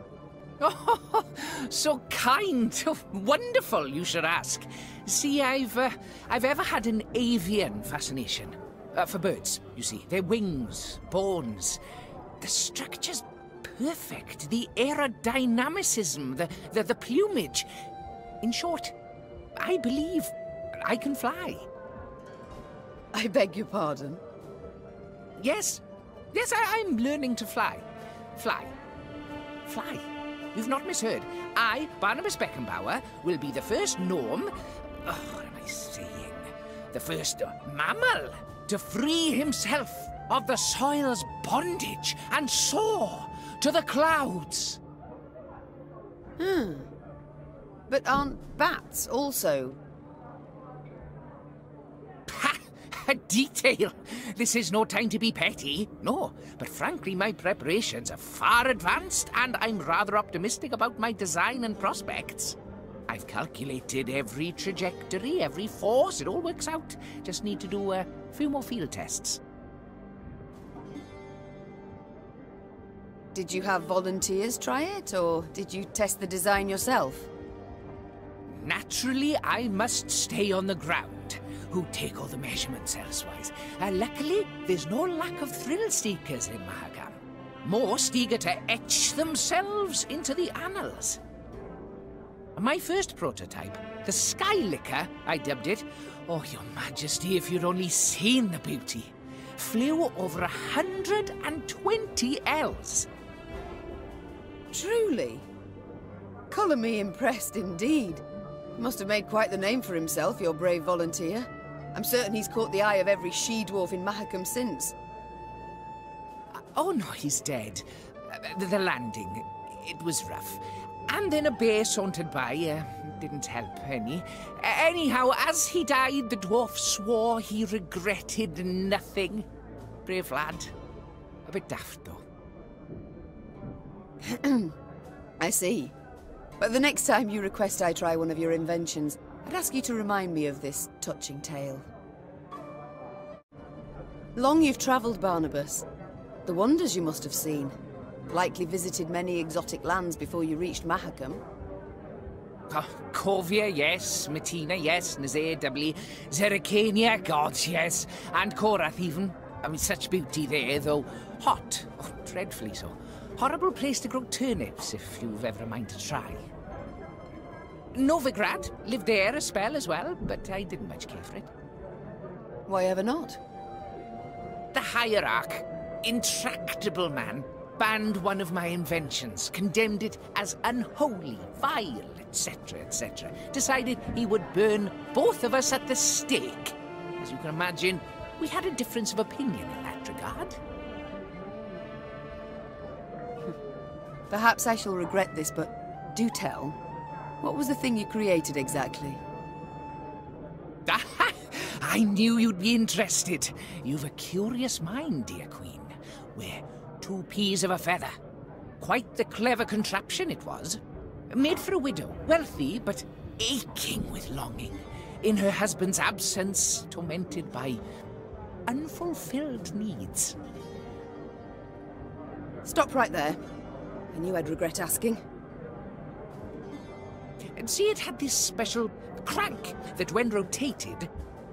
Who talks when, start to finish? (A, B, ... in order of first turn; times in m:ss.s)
0:00.6-0:11.8 A
0:12.4-0:17.7 A
0:18.4-0:18.9 A
0:19.6-0:21.6 A
0:23.1-0:24.2 B
0:25.4-0:25.8 A
0:26.3-0:27.8 A
0:28.4-0:28.7 A
0:29.6-0:34.5 A
0:35.0-0:44.8 A
0:46.4-0:46.9 B
0:47.9-0:49.8 B
0:52.2-1:02.6 A
1:03.1-1:09.4 A
1:13.3-1:17.3 B
1:18.5-1:31.2 A
1:32.6-1:43.1 A
1:44.7-1:45.4 B
1:46.5-1:48.2 B
1:48.8-1:54.9 B
1:56.5-2:09.4 A
2:10.0-2:10.7 A
2:11.4-2:12.2 A
2:14.2-2:14.7 B
2:15.4-2:15.9 B
2:16.6-2:21.8 B
2:24.4-2:25.8 B
2:26.4-2:27.7 B
2:28.3-2:31.4 B
2:32.7-2:46.4 A
2:47.9-2:51.5 A
2:52.7-2:53.4 B
2:54.7-3:10.6 A
3:14.3-3:16.8 B
3:17.4-3:19.2 B
3:20.8-3:28.1 A
3:28.8-3:37.8 A
3:38.7-3:40.4 A
3:42.6-3:43.4 B
3:44.1-3:45.2 B
3:47.6-3:51.1 A